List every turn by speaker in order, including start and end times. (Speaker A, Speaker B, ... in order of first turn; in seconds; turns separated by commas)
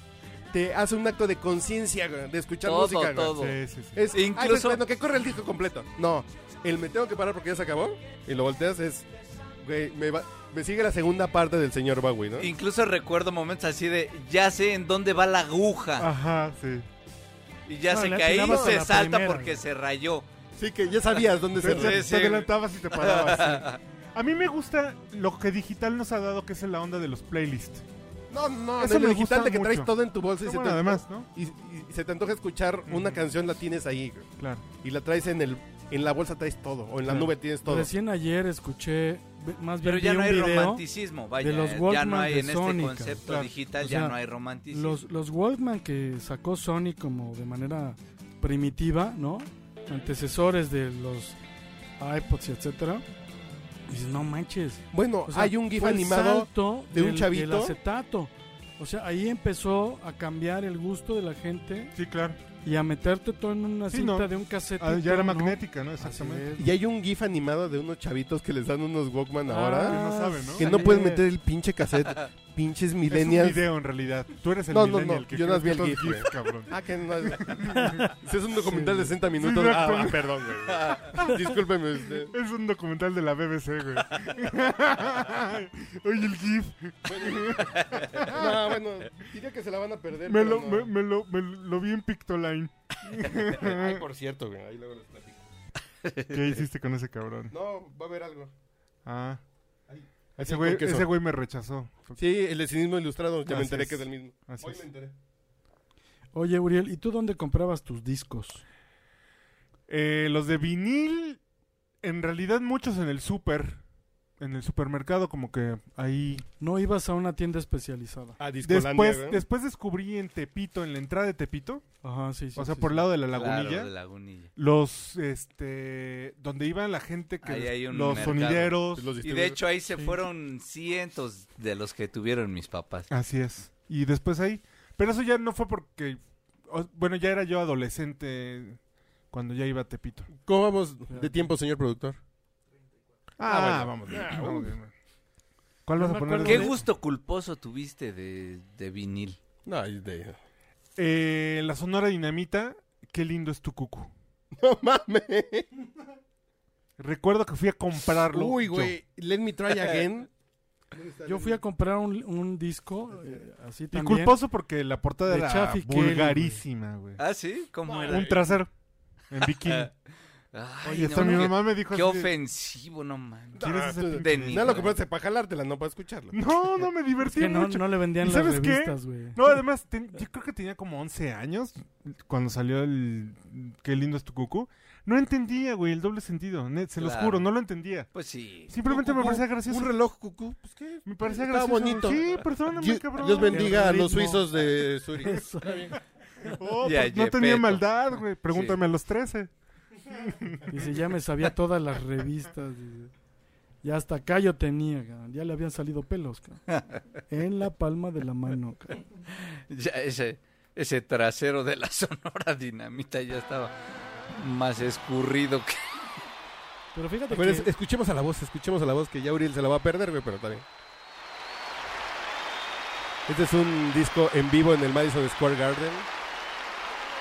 Speaker A: 0.5-3.4, Speaker B: 2.6-3.6, Speaker C: 3.3-4.0, Speaker A: 4.0-9.1, Speaker B: 4.1-4.8, Speaker A: 9.6-12.5, Speaker B: 12.4-16.1, Speaker C: 16.0-16.9, Speaker B: 17.7-20.3, Speaker D: 17.9-19.6, Speaker A: 18.5-18.8, Speaker A: 20.6-22.4, Speaker B: 21.1-23.8, Speaker C: 21.6-27.9, Speaker A: 28.3-34.3, Speaker C: 28.8-31.3, Speaker C: 32.9-33.3, Speaker C: 34.4-34.7, Speaker A: 34.8-37.9, Speaker D: 37.1-40.8, Speaker B: 39.8-45.0, Speaker D: 41.4-43.2, Speaker C: 43.3-43.5, Speaker D: 43.8-44.2, Speaker D: 44.7-51.4, Speaker D: 52.0-53.0, Speaker D: 53.9-61.9, Speaker A: 54.9-57.8, Speaker C: 61.9-62.4, Speaker D: 62.6-66.7, Speaker C: 63.9-66.5, Speaker A: 66.6-73.6, Speaker D: 69.5-71.1, Speaker C: 69.5-71.2, Speaker C: 73.1-78.1, Speaker A: 74.7-82.3, Speaker D: 77.8-78.1, Speaker D: 78.7-79.2, Speaker C: 79.3-80.5, Speaker C: 81.1-81.5, Speaker C: 82.3-88.8, Speaker A: 87.1-90.9, Speaker C: 90.3-94.0, Speaker A: 93.5-95.5, Speaker B: 96.0-96.4, Speaker C: 96.3-97.5, Speaker A: 97.5-98.5, Speaker C: 99.0-99.4, Speaker A: 99.9-101.1, Speaker C: 100.4-102.2, Speaker A: 102.2-105.1, Speaker C: 103.5-104.8, Speaker D: 106.3-108.6, Speaker C: 109.9-111.4, Speaker C: 112.0-113.8, Speaker C: 114.4-116.5, Speaker D: 116.6-118.4, Speaker A: 118.4-119.4, Speaker C: 118.6-121.8, Speaker D: 122.0-123.1, Speaker C: 122.5-123.9, Speaker B: 123.3-124.5, Speaker C: 124.6-129.1, Speaker B: 127.4-133.1, Speaker A: 128.1-129.6, Speaker C: 133.1-140.3, Speaker A: 140.4-142.2, Speaker C: 143.4-144.9, Speaker A: 143.4-144.7, Speaker C: 145.9-146.8, Speaker D: 146.0-146.7, Speaker B: 146.4-149.4, Speaker A: 149.6-150.4, Speaker C: 151.0-154.1, Speaker A: 154.6-155.7, Speaker C: 157.0-159.0, Speaker A: 158.3-160.3, Speaker B: 159.7-160.1, Speaker A: 160.9-161.6, Speaker D: 161.2-164.4, Speaker C: 163.9-167.2, Speaker D: 165.3-166.6, Speaker B: 167.2-168.5, Speaker A: 167.9-168.4, Speaker C: 168.0-168.7, Speaker C: 169.3-169.9, Speaker B: 169.4-169.9, Speaker B: 170.5-175.0, Speaker D: 170.9-171.5, Speaker C: 170.9-172.3, Speaker A: 173.6-176.4, Speaker C: 173.6-174.8, Speaker C: 176.3-188.1, Speaker D: 177.3-179.4, Speaker B: 187.0-187.5, Speaker B: 188.1-188.8, Speaker C: 188.7-190.0, Speaker A: 188.9-195.9, Speaker C: 191.0-193.8, Speaker D: 193.5-194.6, Speaker D: 195.2-195.7, Speaker C: 196.4-199.5, Speaker B: 196.8-198.8, Speaker C: 200.1-200.8, Speaker D: 200.7-203.1, Speaker D: 203.8-206.7, Speaker D: 207.3-209.0, Speaker B: 209.4-213.7, Speaker B: 214.4-216.1, Speaker D: 216.9-217.7, Speaker A: 217.3-220.6, Speaker A: 223.3-226.1